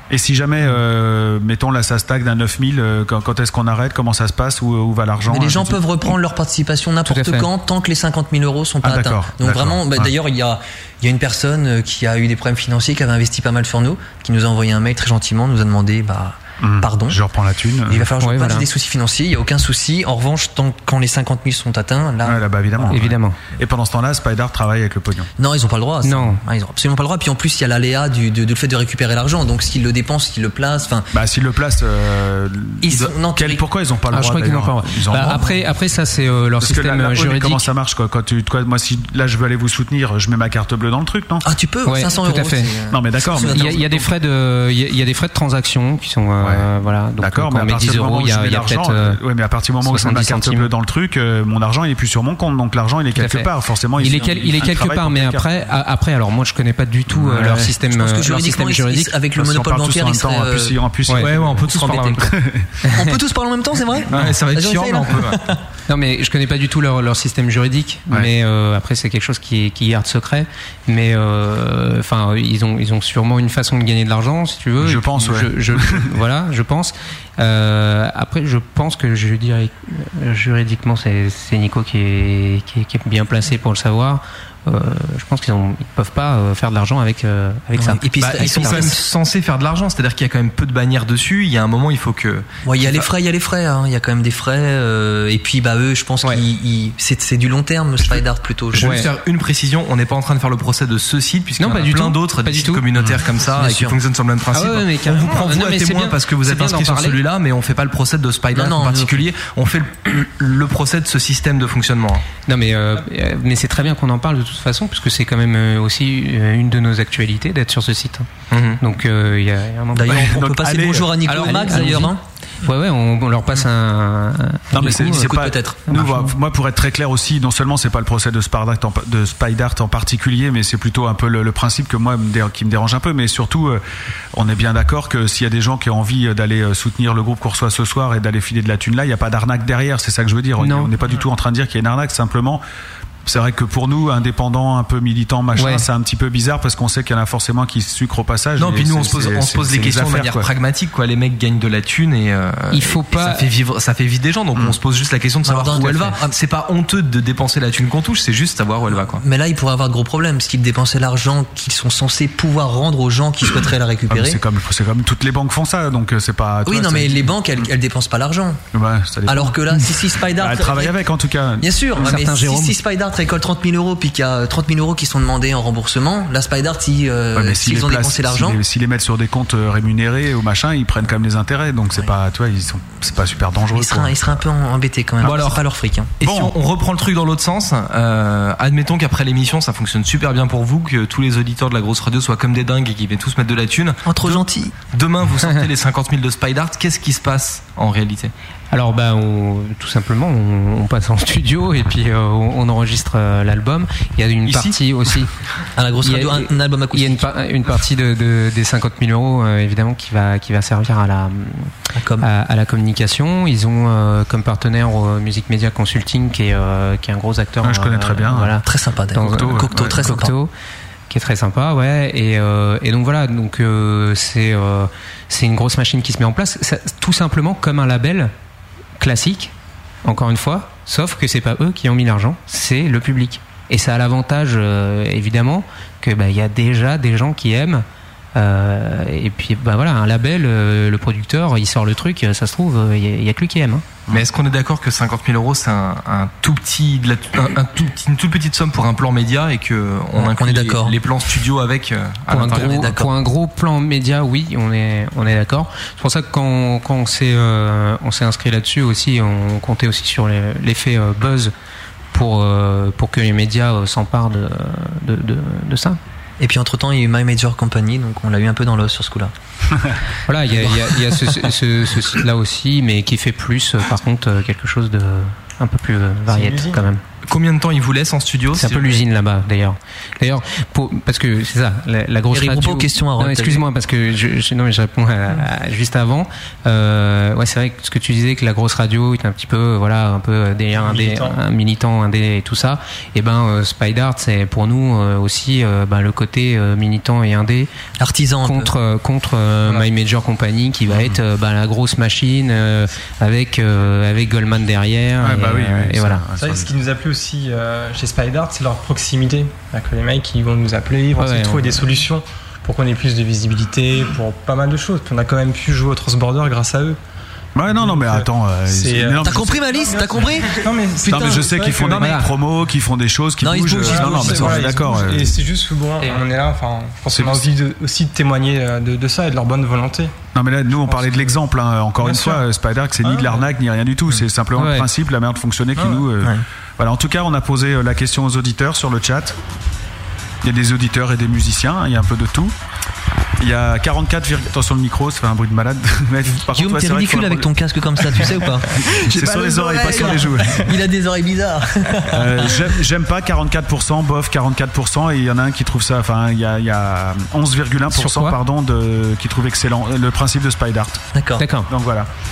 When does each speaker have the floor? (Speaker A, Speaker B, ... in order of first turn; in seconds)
Speaker A: 0.1-5.8, 8.8-10.1, 16.6-18.1, 22.2-25.3, 31.1-35.5, 36.6-41.4, 42.9-43.8, 46.4-55.5, 57.1-57.7, 59.4-62.7, 74.8-76.1, 120.1-121.2, 124.7-133.8, 134.3-142.6, 143.2-150.5, 164.1-167.7, 168.7-171.7, 177.3-184.2, 186.2-186.5, 204.4-204.8, 217.6-218.6, 219.2-220.0, 300.9-301.2, 305.2-306.7, 317.5-319.7, 321.1-325.3, 327.1-327.4, 330.3-339.4, 340.4-342.5, 343.4-348.3, 348.9-350.8, 352.1-361.0, 361.7-362.1
Speaker B: 5.3-17.2, 17.9-22.9, 25.4-31.1, 32.8-33.6, 41.4-44.1, 57.7-60.8, 61.6-62.3, 62.9-65.6, 87.8-89.0, 92.7-99.0, 103.5-104.0, 108.5-109.2, 119.9-122.2, 124.8-126.2, 155.4-156.3, 158.9-164.4, 166.7-168.6, 169.3-170.9, 171.6-178.6, 183.7-186.1, 194.1-194.7, 205.8-207.2, 211.9-212.3, 218.6-220.3, 250.2-250.9, 252.5-253.1, 266.4-269.3, 270.6-271.5, 282.3-283.6, 298.0-298.7, 319.2-321.5, 323.4-324.7, 346.5-352.7, 361.1-361.4
Speaker C: 7.1-7.5, 18.2-18.7, 22.9-23.4, 26.0-26.4, 34.1-37.7, 41.9-42.7, 43.3-49.2, 49.8-50.7, 53.1-59.1, 62.8-63.1, 65.9-89.0, 98.8-99.1, 101.6-102.8, 104.5-107.2, 112.5-118.3, 118.8-120.3, 121.3-125.3, 126.0-126.2, 140.6-140.9, 145.6-145.8, 152.7-153.5, 172.0-172.8, 198.7-205.3, 206.0-220.5, 221.1-228.3, 229.0-229.5, 230.0-237.8, 238.3-243.8, 252.3-261.5, 262.1-266.0, 270.3-277.0, 278.5-297.7, 298.4-306.2, 311.1-311.9, 321.9-322.3, 334.6-334.9, 357.9-358.4, 361.4-361.7
Speaker D: 61.2-62.3, 64.1-65.4, 88.2-93.1, 98.0-112.2, 118.5-118.8, 121.3-121.8, 148.6-159.2, 185.2-185.6, 186.2-198.3, 244.1-252.9, 277.3-279.0
Speaker E: 276.3-276.8, 290.7-291.4, 306.3-317.0, 317.6-322.0, 323.8-330.1, 330.8-331.4, 332.0-332.4, 333.0-333.5, 335.8-336.1